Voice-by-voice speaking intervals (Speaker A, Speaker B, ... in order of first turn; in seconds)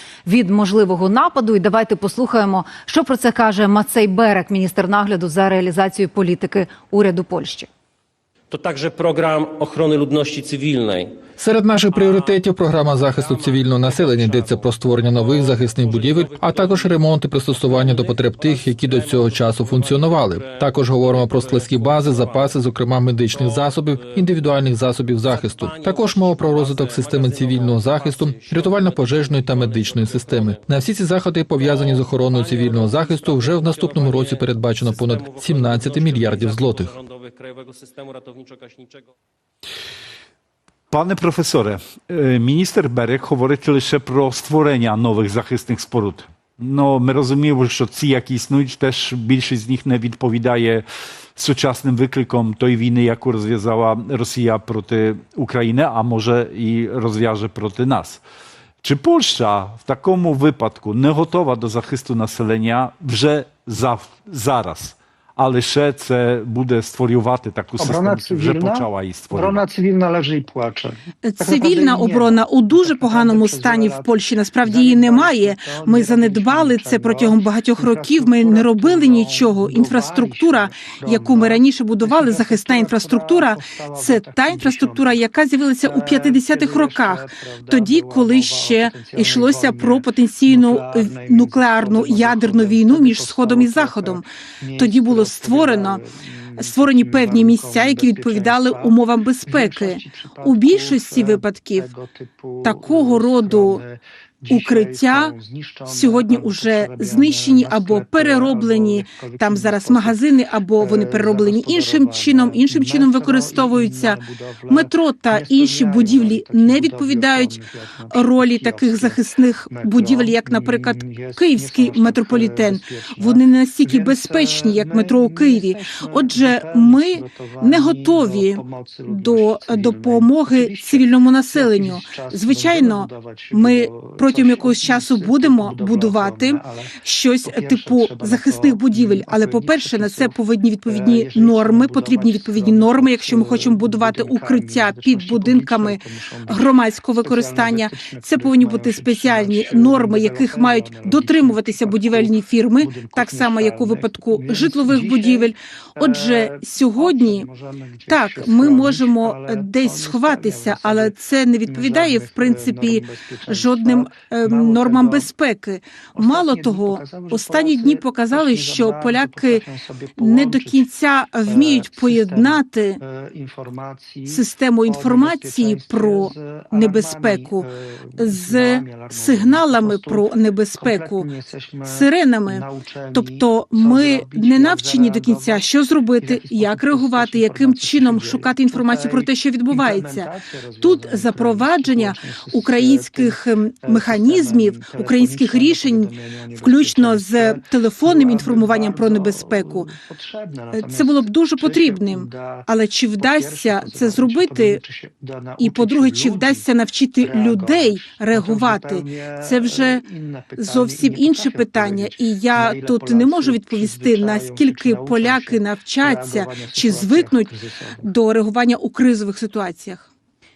Speaker A: 0.3-7.7
Speaker B: 8.5-11.1, 11.9-12.4, 13.0-22.6, 23.2-30.7, 31.5-39.1
Speaker C: 11.4-37.0
Speaker D: 40.9-50.9, 51.4-58.2, 58.8-69.6
Speaker E: 67.8-74.1, 74.6-85.2, 85.9-99.0, 99.5-110.2, 110.8-119.2, 119.7-136.9, 137.4-140.3, 140.9-146.6, 147.2-161.2, 161.7-165.3, 166.2-170.9, 171.5-185.6, 186.2-202.7, 203.2-206.6, 207.2-218.1
Speaker F: 71.2-94.3, 94.8-96.0, 96.6-101.9, 102.6-103.8, 104.5-105.3, 105.9-114.2, 114.7-117.6, 118.1-157.5, 158.1-169.6, 170.2-173.0, 174.3-177.6, 178.2-181.3, 181.9-182.6, 183.1-190.3, 190.8-199.9, 200.7-204.8, 205.6-210.0, 210.6-217.5, 218.0-220.1